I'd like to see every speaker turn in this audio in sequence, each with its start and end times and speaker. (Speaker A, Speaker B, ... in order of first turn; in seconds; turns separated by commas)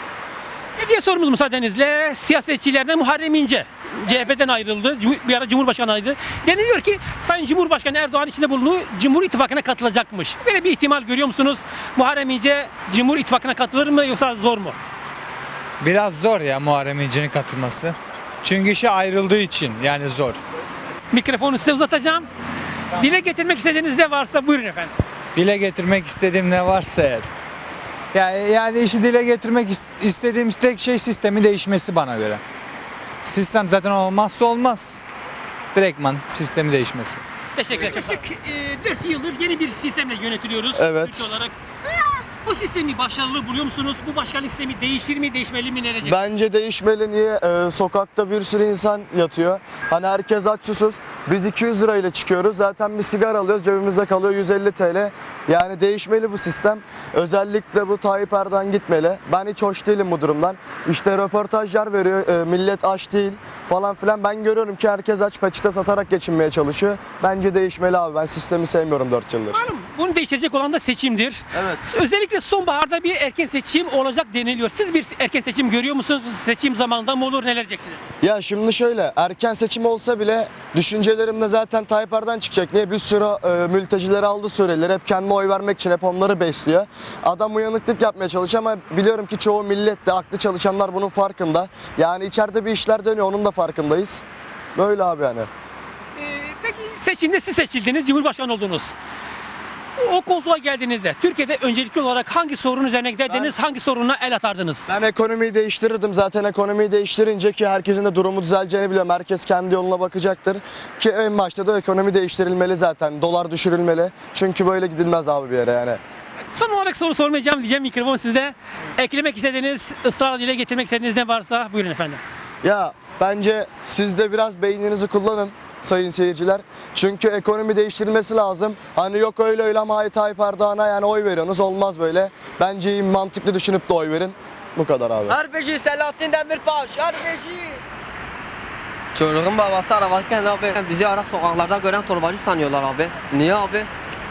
Speaker A: 0.8-14.8, Speaker B: 15.8-20.4, Speaker A: 21.1-22.3, Speaker A: 22.9-24.9, Speaker B: 25.4-27.3, Speaker B: 28.1-32.4, Speaker B: 33.2-35.0, Speaker B: 35.7-37.2, Speaker A: 37.5-46.2, Speaker C: 40.8-41.3, Speaker C: 46.0-69.6, Speaker A: 69.5-78.0, Speaker C: 71.5-71.8, Speaker C: 78.2-94.2, Speaker C: 94.8-95.5, Speaker A: 96.2-98.9, Speaker A: 100.0-104.9, Speaker C: 104.9-116.0, Speaker A: 116.5-122.2, Speaker C: 122.6-135.4, Speaker D: 135.3-137.8, Speaker D: 139.2-143.9